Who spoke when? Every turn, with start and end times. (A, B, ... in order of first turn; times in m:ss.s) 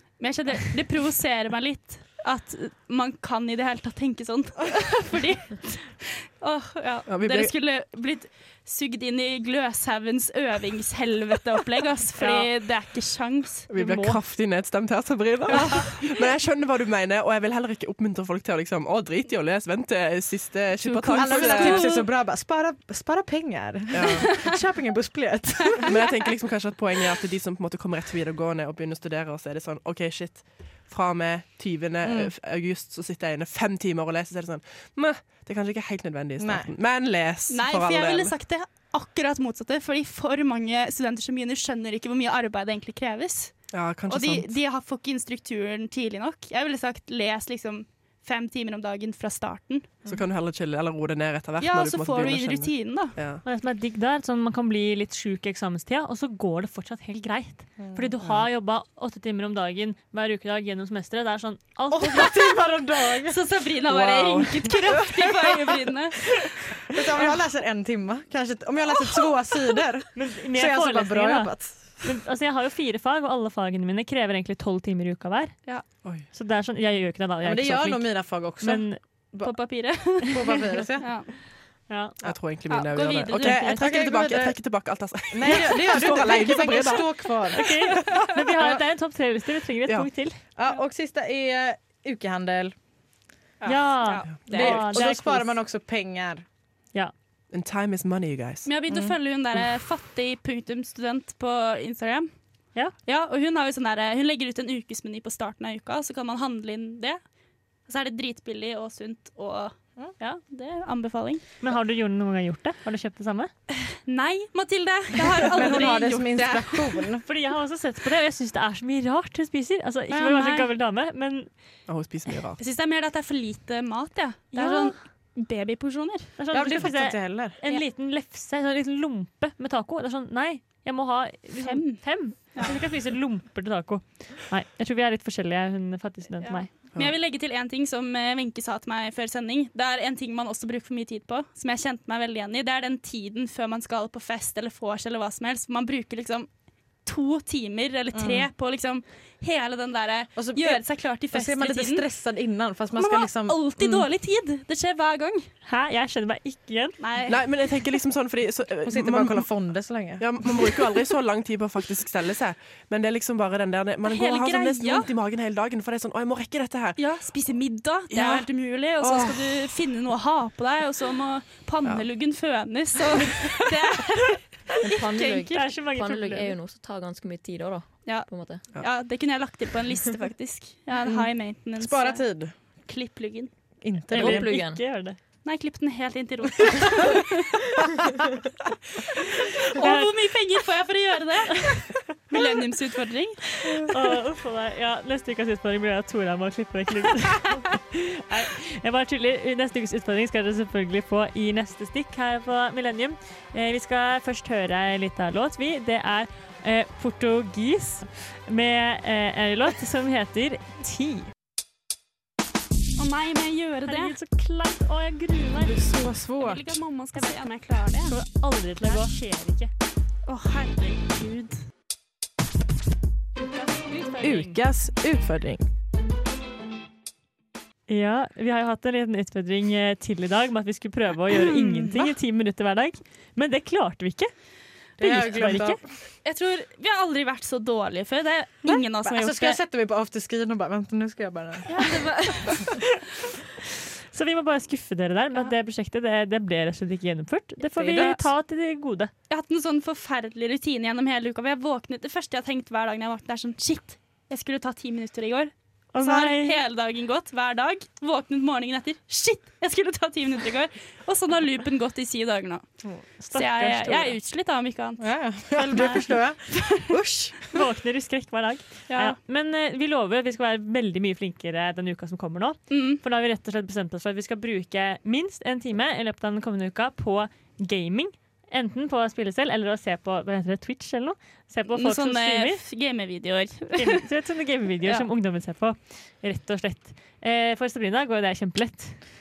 0:00.2-0:13.7 A
0:07.1-0:07.5 B
0:12.2-0:12.5 C
0:13.7-0:22.0 B
0:13.7-0:14.2 C
0:15.5-0:16.0 A
0:20.8-0:22.1 A
0:21.2-0:25.9 D
0:23.9-0:24.3 B
0:25.9-0:38.3 B
0:32.0-0:32.3 D
0:36.4-0:36.7 D
0:37.5-0:49.9 A
0:43.7-0:44.6 B
0:50.0-0:53.4 B
0:51.6-0:53.1 A
0:53.4-1:02.4 C
0:57.8-0:58.1 D
1:01.9-1:03.4 D
1:03.3-1:06.3 A
1:03.8-1:05.0 B
1:06.9-1:12.1 D
1:10.1-1:15.6 C
1:16.3-1:19.0 C
1:17.4-1:19.5 D
1:19.4-1:21.3 A
1:20.0-1:21.1 D
1:21.9-1:22.2 C
1:22.2-1:27.5 B
1:22.7-1:23.9 A
1:23.7-1:24.7 D
1:25.3-1:27.7 D
1:27.5-1:30.4 C
1:30.6-1:32.7 D
1:33.6-1:35.1 A
1:33.6-1:35.6 C
1:34.5-1:36.4 D
1:37.5-1:38.8 B
1:38.6-1:42.3 A
1:38.9-1:39.1 D
1:43.0-1:47.2 A
1:47.9-1:51.4 A
1:51.6-1:53.5 C
1:54.0-1:57.1 A
1:55.4-1:57.2 D
1:57.2-2:01.5 C
2:00.1-2:00.7 A
2:01.9-2:02.6 B
2:02.6-2:06.3 A
2:04.5-2:04.9 C
2:06.4-2:16.7 C
2:06.5-2:07.6 D
2:11.6-2:12.7 A
2:16.4-2:26.5 A
2:27.0-2:32.0 A
2:28.1-2:28.5 D
2:30.4-2:34.0 D
2:32.9-2:35.4 A
2:35.6-2:37.0 C
2:37.0-2:37.5 A
2:37.3-2:39.5 B
2:38.8-2:40.3 D
2:40.2-2:47.0 B
2:44.0-2:45.1 A
2:47.0-2:55.6 A
2:48.1-2:49.4 B
2:54.8-2:58.6 E
2:55.5-2:56.5 C
2:58.0-3:03.5 A
3:01.0-3:02.5 D
3:03.8-3:04.6 D
3:04.1-3:05.2 C
3:04.1-3:04.8 E
3:05.4-3:07.6 A
3:09.4-3:13.9 A
3:09.8-3:10.1 C
3:13.8-3:31.3 C
3:33.0-3:34.1 A
3:33.8-3:35.8 C
3:35.6-3:36.6 D
3:36.4-3:38.2 A
3:37.1-3:37.5 C
3:38.1-3:39.7 C
3:38.8-3:39.2 A
3:40.2-3:41.6 A
3:43.5-3:44.6 C
3:44.2-3:45.6 D
3:47.9-3:54.3 C
3:51.3-3:52.0 A
3:55.0-3:55.8 D
3:55.0-3:55.8 C
3:56.2-3:59.6 A
3:58.6-4:01.8 D
4:01.7-4:02.7 A
4:04.1-4:09.1 C
4:07.7-4:08.2 D
4:07.9-4:08.2 A
4:09.3-4:22.6 A
4:15.9-4:16.6 C
4:23.2-4:24.2 C
4:23.3-4:27.0 A
4:25.0-4:27.6 D
4:27.5-4:42.6 C
4:28.9-4:29.2 A
4:32.7-4:33.0 A
4:41.7-4:44.0 A
4:43.8-4:49.0 C